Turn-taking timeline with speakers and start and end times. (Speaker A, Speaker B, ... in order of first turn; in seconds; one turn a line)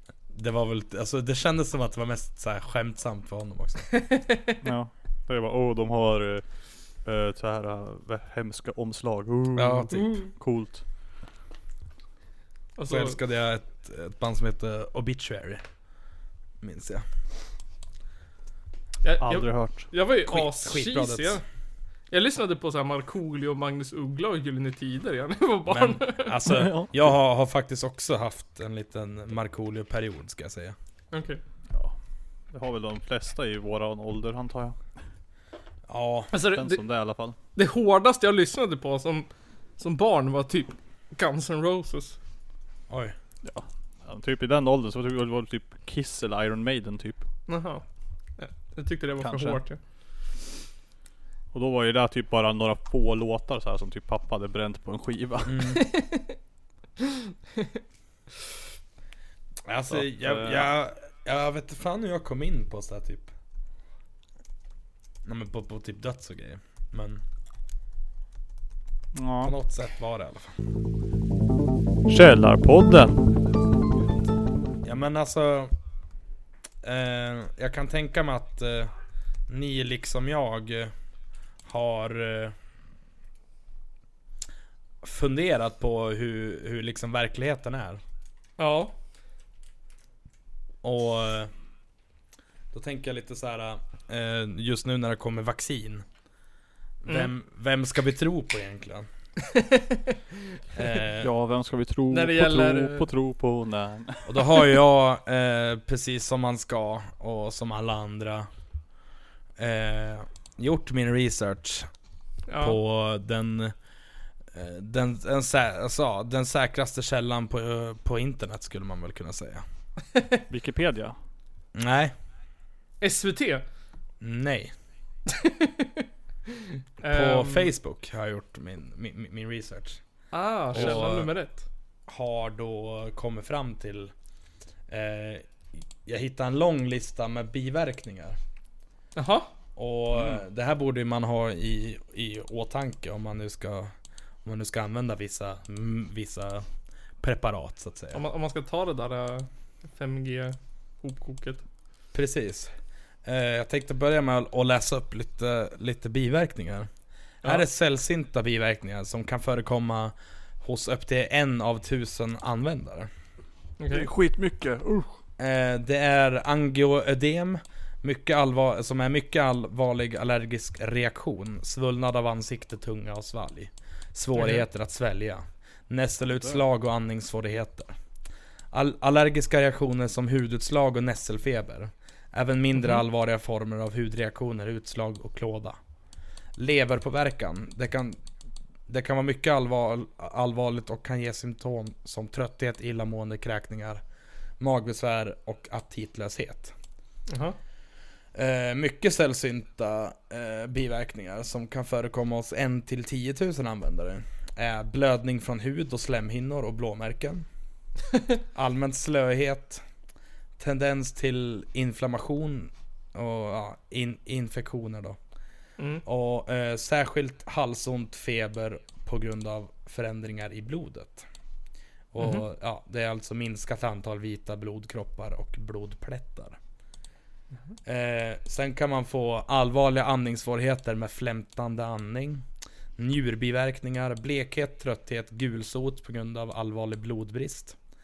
Speaker A: 0.3-3.9
Speaker B: 4.0-4.5
Speaker C: 4.6-6.4
Speaker C: 7.0-10.8
Speaker A: 9.6-10.1
Speaker B: 9.9-10.3
Speaker B: 12.8-13.2
Speaker A: 12.8-15.6
Speaker A: 16.6-17.0
Speaker B: 19.0-21.4
Speaker C: 19.2-19.9
Speaker A: 20.2-21.4
Speaker B: 22.1-26.5
Speaker A: 25.7-30.8
Speaker C: 26.5-27.1
Speaker B: 31.1-31.4
Speaker C: 32.5-34.8
Speaker A: 35.9-36.3
Speaker B: 36.3-36.8
Speaker C: 36.4-37.4
Speaker B: 37.5-42.2
Speaker A: 42.9-43.1
Speaker C: 43.4-47.2
Speaker B: 47.5-47.8
Speaker B: 48.4-49.8
Speaker C: 49.2-49.6
Speaker C: 51.5-55.7
Speaker A: 55.5-55.8
Speaker B: 55.7-56.3
Speaker B: 57.0-57.8
Speaker A: 59.6-63.3
Speaker C: 59.9-60.7
Speaker A: 65.2-67.2
Speaker C: 69.1-69.5
Speaker A: 69.4-70.5
Speaker C: 72.1-73.3
Speaker A: 74.8-75.7
Speaker A: 76.8-78.9
Speaker A: 79.5-80.9
Speaker A: 81.7-82.5
Speaker A: 85.0-88.0
Speaker B: 88.6-88.9
Speaker A: 90.8-91.5
Speaker A: 92.7-96.0
Speaker A: 97.0-99.1
Speaker B: 99.4-100.2
Speaker A: 100.7-101.3
Speaker C: 101.2-104.6
Speaker B: 102.1-103.1
Speaker A: 104.3-108.5
Speaker A: 109.6-111.9
Speaker B: 112.5-112.8
Speaker A: 112.6-113.7
Speaker A: 114.5-119.6
Speaker C: 120.5-121.2
Speaker A: 121.7-122.1
Speaker B: 123.0-123.6
Speaker A: 124.2-124.7
Speaker B: 125.3-127.7
Speaker A: 127.0-130.0
Speaker B: 130.3-131.7
Speaker A: 130.7-131.3
Speaker A: 132.1-134.1
Speaker A: 134.9-138.4
Speaker B: 139.2-139.5
Speaker A: 139.8-143.9
Speaker A: 144.4-146.7
Speaker A: 147.2-148.2
Speaker B: 148.1-151.6
Speaker A: 152.1-152.7
Speaker A: 153.2-156.9
Speaker A: 157.4-163.1
Speaker B: 163.8-164.1
Speaker C: 163.9-165.2
Speaker A: 165.4-177.9
Speaker A: 178.7-185.8
Speaker A: 186.6-188.2
Speaker A: 188.9-194.0
Speaker A: 194.6-196.7
Speaker B: 197.3-197.6
Speaker A: 198.3-207.4
Speaker A: 208.5-209.8
Speaker A: 210.6-215.2
Speaker B: 215.8-216.0
Speaker A: 216.0-221.3
Speaker A: 222.1-226.6
Speaker B: 222.2-222.4
Speaker A: 227.8-232.4
Speaker A: 233.0-237.8